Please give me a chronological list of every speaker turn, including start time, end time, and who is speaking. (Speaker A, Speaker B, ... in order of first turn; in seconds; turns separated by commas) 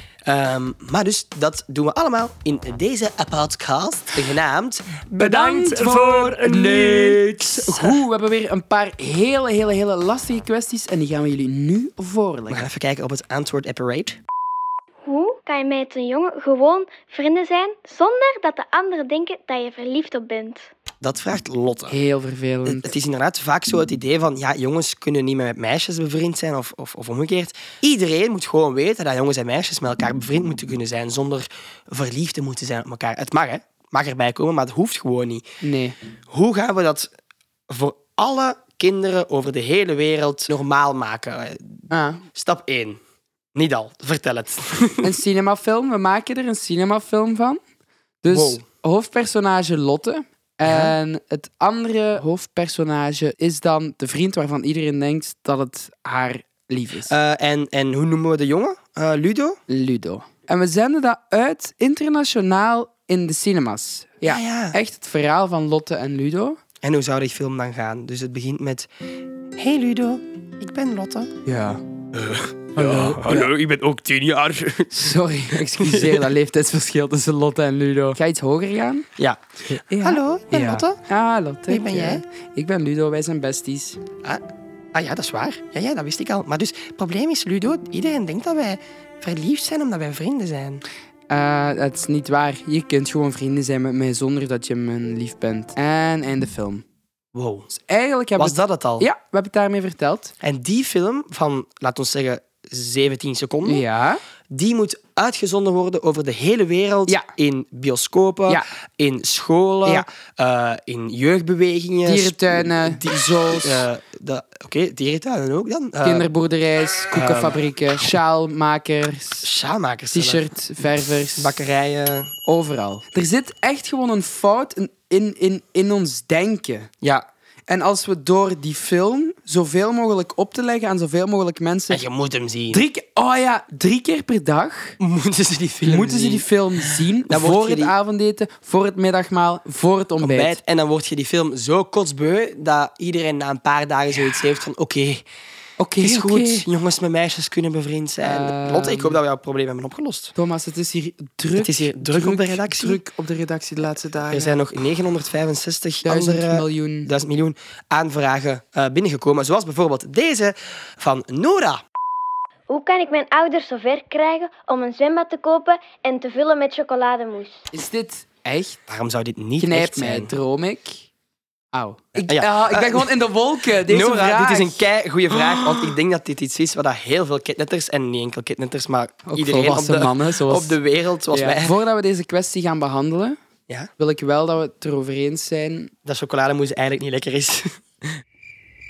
Speaker A: 0.2-8.0, Speaker B: 5.2-12.7, Speaker A: 12.5-14.2, Speaker C: 15.0-20.7, Speaker A: 21.0-22.0, Speaker B: 21.9-22.9, Speaker A: 22.6-35.4, Speaker B: 35.6-36.0, Speaker A: 36.3-37.1, Speaker A: 37.7-43.0, Speaker B: 41.9-42.2, Speaker A: 43.5-45.1, Speaker B: 45.0-47.6, Speaker B: 48.2-57.1, Speaker A: 48.3-48.6, Speaker A: 50.6-50.9, Speaker A: 57.1-59.6, Speaker B: 59.7-66.6, Speaker A: 64.2-64.8, Speaker A: 66.8-68.9, Speaker A: 69.5-71.3, Speaker B: 71.5-71.8, Speaker A: 72.1-76.3, Speaker B: 72.8-73.5, Speaker B: 74.9-79.1, Speaker B: 79.7-84.0, Speaker A: 80.0-81.0, Speaker A: 81.7-82.2, Speaker A: 84.9-90.8, Speaker B: 91.3-96.8, Speaker A: 97.3-97.7, Speaker B: 97.7-100.3, Speaker A: 98.4-99.1, Speaker A: 100.4-103.8, Speaker B: 103.6-104.2, Speaker A: 104.5-116.3, Speaker B: 112.0-113.9, Speaker B: 116.0-119.5, Speaker A: 117.1-117.6, Speaker A: 119.4-120.4, Speaker B: 120.1-121.6, Speaker A: 121.3-122.3, Speaker B: 122.4-126.9, Speaker B: 127.7-132.0, Speaker A: 131.9-132.8, Speaker B: 132.7-134.9, Speaker A: 135.0-137.9, Speaker B: 135.8-140.6, Speaker A: 140.2-145.2, Speaker B: 145.8-146.7, Speaker A: 146.0-150.3, Speaker B: 148.2-149.2, Speaker B: 150.3-154.6, Speaker A: 151.6-153.0, Speaker A: 154.3-161.8, Speaker B: 156.0-157.1, Speaker C: 162.7-167.6, Speaker B: 167.7-168.8, Speaker A: 168.9-170.3, Speaker B: 169.6-171.0, Speaker B: 171.7-176.0, Speaker A: 172.2-173.1, Speaker A: 173.8-181.8, Speaker B: 179.3-180.8, Speaker B: 181.3-183.4, Speaker B: 184.0-185.9, Speaker A: 186.1-188.2